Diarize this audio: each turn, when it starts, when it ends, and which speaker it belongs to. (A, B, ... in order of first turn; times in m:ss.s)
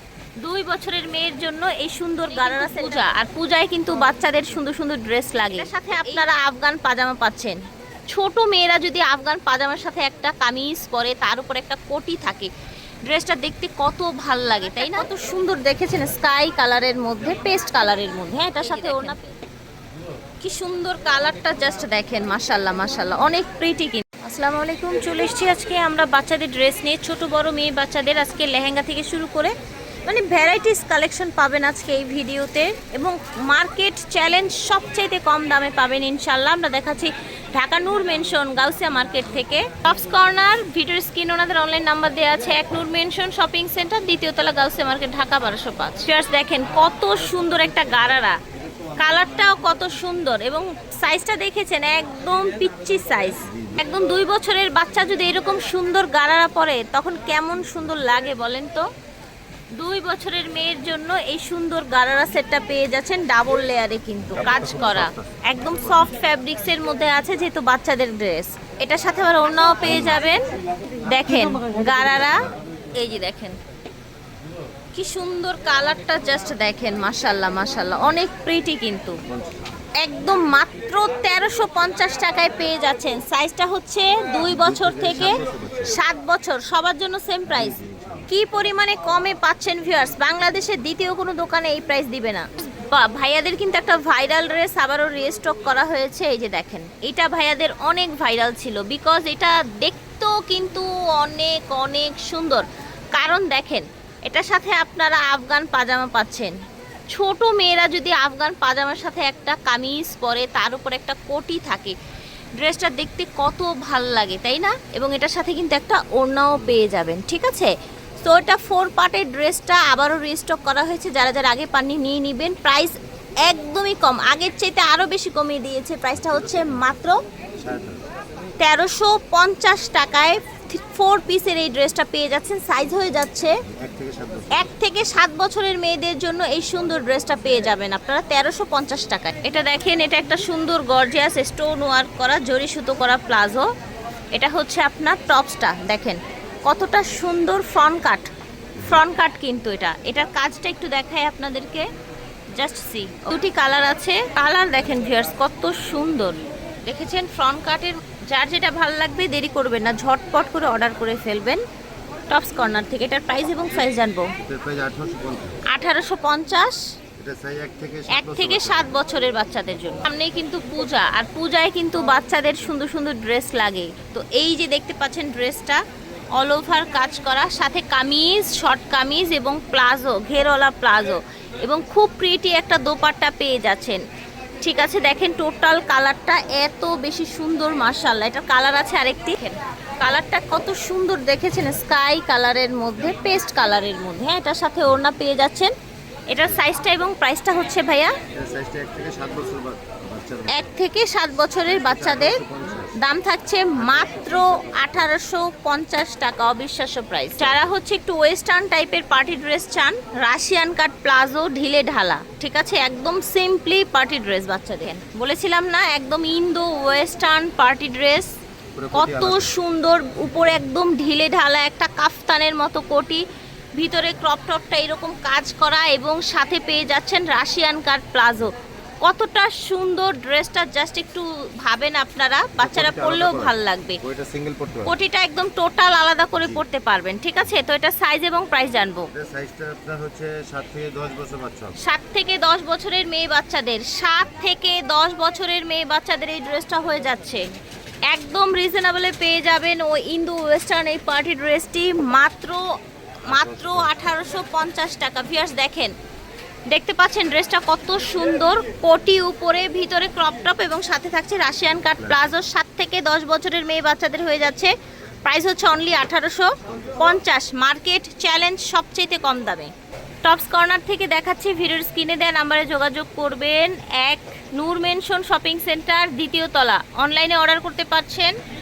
0:00.4-0:07.6 A
0:08.1-0:12.5 A
0:13.0-0:19.3 A
0:20.4-0:29.5 A
0:30.0-0:48.4 A
0:49.0-0:58.9 A
0:53.5-0:53.8 B
0:59.8-1:10.5 A
1:04.3-1:06.1 B
1:09.8-1:10.2 B
1:11.0-1:13.6 A
1:14.9-1:19.2 A
1:19.3-1:19.7 B
1:20.0-1:46.5 A
1:24.4-1:25.9 B
1:27.6-1:28.2 B
1:47.1-1:52.0 A
1:52.6-1:57.7 A
1:58.2-2:07.2 A
2:06.3-2:06.8 B
2:07.6-2:08.0 B
2:08.6-2:13.5 A
2:13.7-2:14.7 B
2:14.5-2:23.7 A
2:24.3-2:31.9 A
2:32.6-2:41.6 A
2:42.3-2:44.3 A
2:44.4-2:45.6 B
2:45.7-2:46.8 A
2:47.2-2:49.0 B
2:48.1-2:55.8 A
2:56.4-3:04.0 A
3:04.6-3:15.7 A
3:16.3-3:18.1 A
3:18.3-3:20.7 B
3:20.5-3:22.4 A
3:21.7-3:23.0 B
3:23.0-3:38.3 A
3:23.8-3:24.6 B
3:27.4-3:27.7 B
3:38.8-3:39.5 B
3:38.9-3:43.2 A
3:43.8-3:54.0 A
3:52.6-3:54.9 B
3:54.8-3:59.1 A
3:59.1-4:01.7 B
4:01.8-4:07.4 A
4:08.1-4:12.7 A
4:13.3-4:15.9 A
4:13.3-4:14.0 B
4:16.7-4:24.7 A
4:22.0-4:22.3 B
4:25.2-4:29.7 A
4:30.2-4:38.4 A